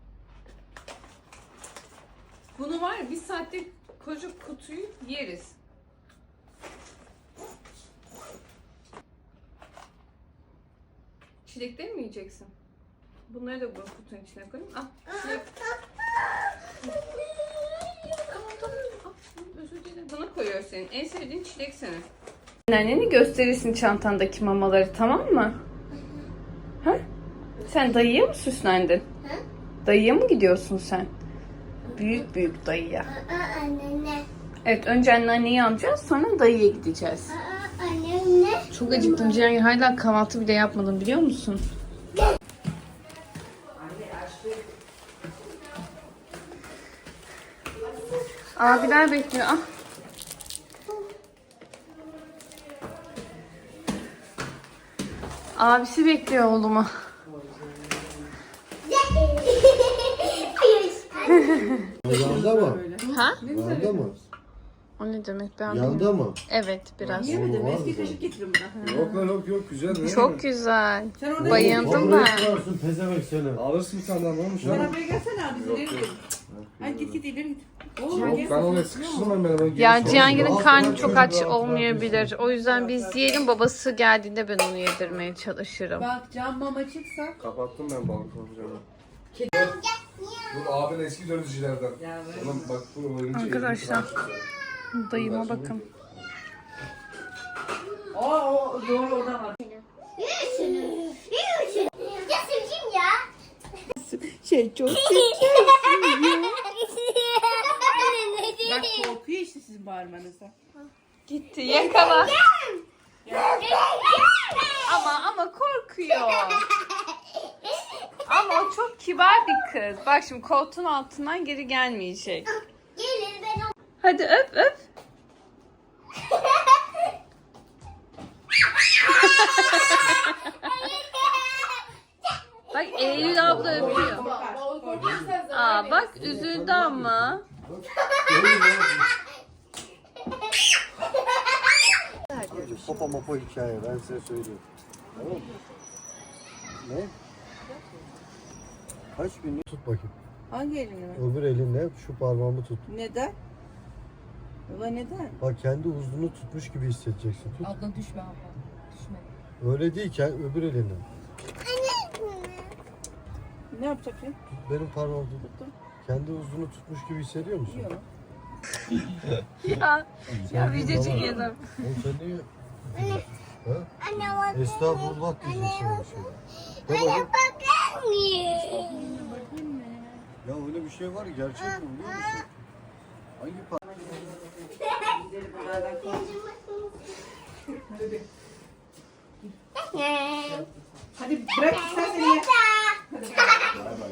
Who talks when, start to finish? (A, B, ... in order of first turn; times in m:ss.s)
0:02.6-0:05.6 A
0:11.4-0:12.5 A
0:13.3-0:15.5 A
0:18.2-0:22.1 A
0:22.7-0:25.6 A
0:27.6-0:29.0 A
0:29.8-0:31.1 A
0:31.9-0:33.1 A
0:33.1-0:34.3 B
0:34.6-0:37.4 A
0:37.3-0:39.4 B
0:38.7-0:41.6 A
0:48.6-0:49.6 A
0:55.6-0:56.9 A
0:58.8-1:01.9 B
1:01.3-1:01.9 A
1:02.0-1:04.2 C
1:02.0-1:02.9 D
1:03.0-1:03.4 A
1:03.4-1:04.2 D
1:05.0-1:07.4 A
1:05.7-1:06.4 D
1:07.0-1:09.0 C
1:07.1-1:08.2 D
1:08.8-1:09.3 A
1:08.8-1:10.4 E
1:09.9-1:12.6 A
1:11.2-1:12.3 C
1:11.4-1:13.6 D
1:13.6-1:17.2 E
1:14.6-1:14.9 D
1:14.6-1:16.2 C
1:16.8-1:19.4 C
1:18.1-1:21.6 E
1:18.1-1:18.4 A
1:19.8-1:26.1 A
1:20.0-1:22.3 D
1:22.7-1:23.0 C
1:26.0-1:27.4 C
1:27.4-1:28.8 E
1:29.5-1:29.8 E
1:29.7-1:30.5 B
1:30.5-1:34.4 E
1:32.0-1:32.6 C
1:33.3-1:34.1 A
1:34.9-1:35.8 A
1:35.1-1:36.2 E
1:38.1-1:39.6 C
1:39.7-1:43.3 B
1:43.9-1:46.6 C
1:44.9-1:49.2 B
1:48.6-1:50.5 C
1:51.3-1:52.4 A
1:51.7-1:52.8 B
1:53.3-1:53.6 C
1:53.4-1:54.9 B
1:54.8-1:56.7 A
1:56.7-1:57.6 B
1:58.3-2:02.6 A
2:03.0-2:03.7 B
2:04.0-2:04.9 A
2:09.0-2:10.9 A
2:12.7-2:14.3 A
2:12.9-2:13.4 B
2:13.4-2:15.4 C
2:13.4-2:13.9 D
2:14.1-2:14.3 B
2:15.0-2:15.4 D
2:15.4-2:17.4 A
2:16.1-2:19.1 D
2:22.3-2:23.1 C
2:22.5-2:24.6 D
2:25.2-2:25.5 D
2:26.8-2:27.1 D
2:29.2-2:30.1 D
2:30.5-2:31.2 C
2:31.1-2:32.8 D
2:32.9-2:33.4 C
2:34.7-2:35.4 C
2:35.4-2:37.8 D
2:37.6-2:39.2 C
2:39.6-2:41.1 D
2:41.6-2:42.7 B
2:43.7-2:44.4 C
2:44.5-2:45.5 D
2:45.4-2:45.7 C
2:46.0-2:47.9 D
2:47.7-2:48.1 C
2:49.6-2:51.8 A
2:50.3-2:57.3 D
2:53.0-2:53.2 B
2:54.0-2:59.3 B
2:58.7-3:00.3 C
3:00.4-3:02.6 D
3:01.7-3:02.4 B
3:03.4-3:03.8 D
3:03.9-3:04.5 C
3:04.8-3:07.2 B
3:05.0-3:06.3 C
3:07.9-3:08.2 C
3:09.8-3:10.7 B
3:11.2-3:12.5 C
3:11.5-3:13.0 B
3:13.1-3:14.0 C